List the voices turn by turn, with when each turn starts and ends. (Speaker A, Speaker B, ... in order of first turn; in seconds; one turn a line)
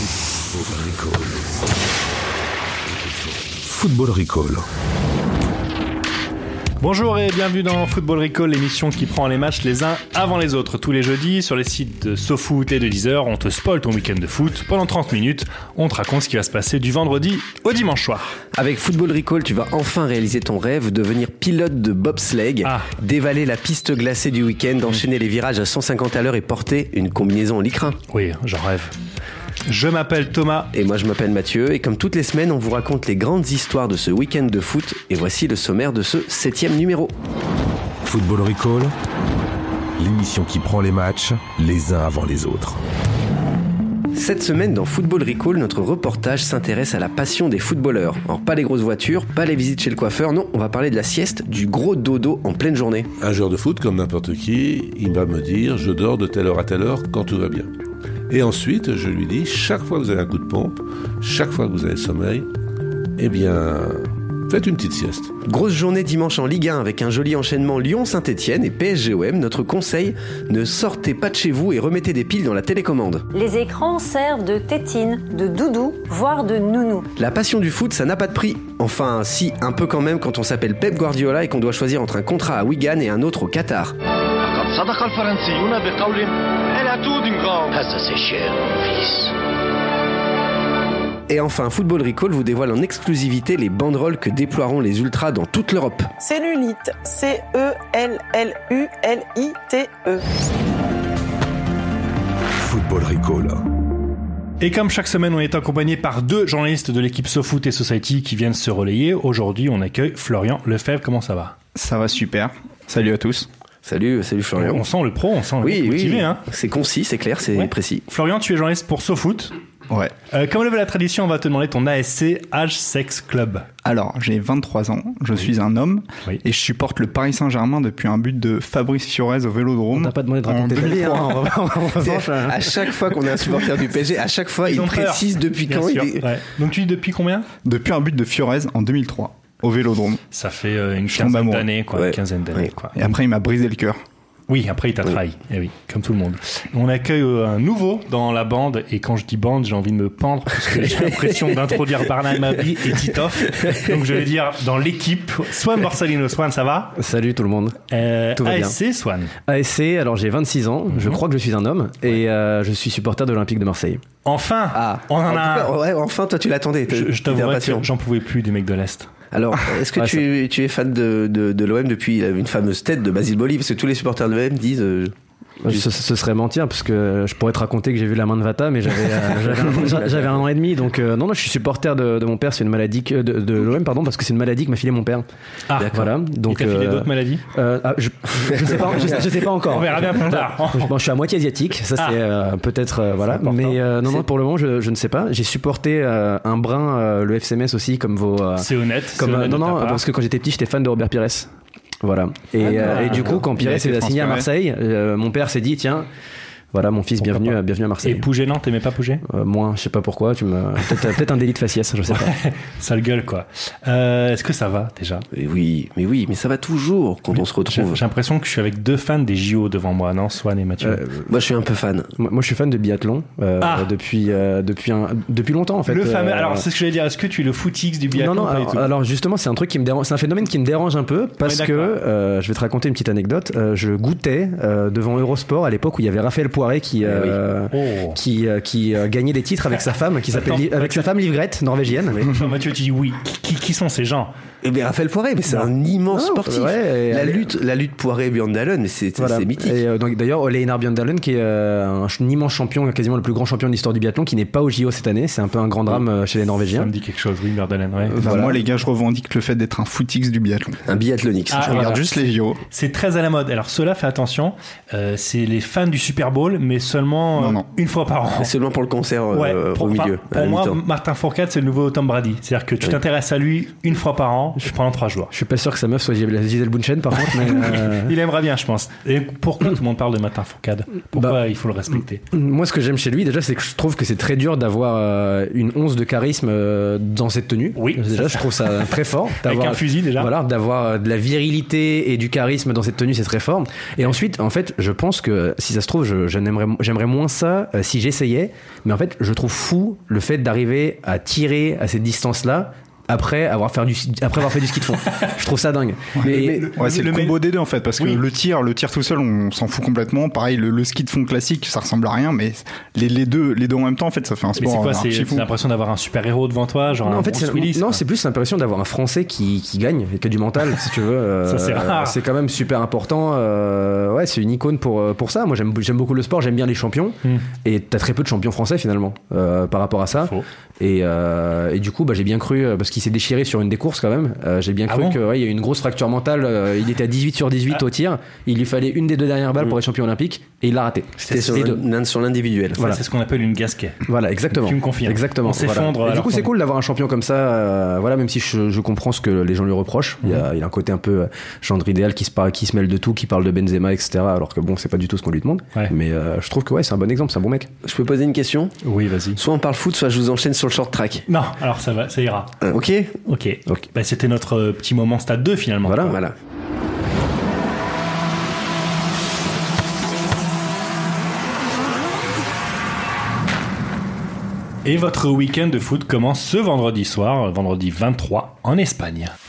Speaker A: 0.5-1.6
Speaker A: 2.9-4.7
Speaker B: 6.8-18.4
Speaker C: 18.5-28.0
Speaker B: 22.6-22.9
Speaker B: 28.1-28.9
Speaker B: 29.7-30.7
Speaker C: 30.7-37.1
Speaker A: 38.0-38.9
Speaker A: 40.0-42.8
Speaker C: 44.1-53.1
Speaker D: 53.2-57.7
Speaker D: 58.3-62.5
Speaker D: 63.2-65.3
Speaker C: 65.5-73.3
Speaker E: 73.3-77.1
Speaker C: 77.2-84.0
Speaker F: 84.4-89.3
Speaker C: 91.3-96.1
Speaker G: 96.2-100.3
Speaker A: 102.6-103.7
Speaker B: 104.6-111.5
Speaker H: 111.8-113.5
Speaker C: 113.8-114.8
Speaker B: 114.6-116.4
Speaker C: 115.6-118.0
Speaker B: 117.5-119.5
Speaker B: 120.3-123.7
Speaker H: 123.8-131.7
Speaker I: 129.9-132.7
Speaker C: 132.0-136.2
Speaker B: 134.7-137.5
Speaker H: 137.7-140.2
Speaker B: 140.3-143.0
Speaker H: 141.1-141.7
Speaker C: 142.0-142.7
Speaker H: 143.0-144.0
Speaker B: 144.5-157.0
Speaker I: 157.0-157.8
Speaker B: 157.9-159.3
Speaker I: 158.4-158.8
Speaker I: 159.5-164.0
Speaker B: 164.2-165.7
Speaker C: 164.7-167.9
Speaker B: 166.9-169.1
Speaker C: 169.3-175.1
Speaker I: 175.6-185.2
Speaker B: 185.7-187.4
Speaker I: 185.9-201.5
Speaker B: 189.7-190.9
Speaker B: 193.3-193.8
Speaker B: 198.6-200.0
Speaker I: 202.0-206.1
Speaker B: 202.6-203.5
Speaker H: 203.1-204.5
Speaker I: 206.7-208.2
Speaker B: 207.2-209.2
Speaker I: 209.2-212.3
Speaker B: 212.1-215.2
Speaker C: 215.3-218.0
Speaker B: 217.3-221.0
Speaker I: 220.8-221.3
Speaker C: 221.3-222.1
Speaker I: 222.2-226.7
Speaker B: 223.6-223.9
Speaker B: 225.9-228.9
Speaker I: 228.1-242.4
Speaker B: 231.4-232.0
Speaker C: 237.0-237.4
Speaker B: 237.7-238.2
Speaker B: 240.3-241.1
Speaker B: 242.2-244.3
Speaker C: 244.6-249.8
Speaker I: 246.1-247.4
Speaker I: 249.2-256.9
Speaker B: 256.8-258.2
Speaker I: 258.1-258.6
Speaker H: 258.2-260.8
Speaker C: 260.9-262.0
Speaker B: 261.5-262.1
Speaker H: 261.6-262.6
Speaker B: 262.7-268.5
Speaker H: 267.4-267.6
Speaker C: 268.4-270.8
Speaker B: 269.3-275.3
Speaker I: 275.3-278.1
Speaker B: 277.5-282.2
Speaker I: 282.3-306.7
Speaker B: 287.8-290.3
Speaker H: 306.1-315.5
Speaker B: 306.3-307.4
Speaker B: 308.0-308.2
Speaker B: 314.6-318.0
Speaker I: 317.0-341.8
Speaker B: 321.4-322.2
Speaker B: 334.9-335.2
Speaker C: 341.2-342.9
Speaker B: 341.3-341.8
Speaker B: 342.8-346.5
Speaker I: 344.1-357.7
Speaker C: 357.8-358.7
Speaker B: 358.8-359.4
Speaker C: 359.4-361.2
Speaker B: 361.3-362.6
Speaker C: 362.6-363.1
Speaker B: 363.2-366.2
Speaker I: 365.8-366.1
Speaker C: 366.0-366.3
Speaker B: 374.8-379.3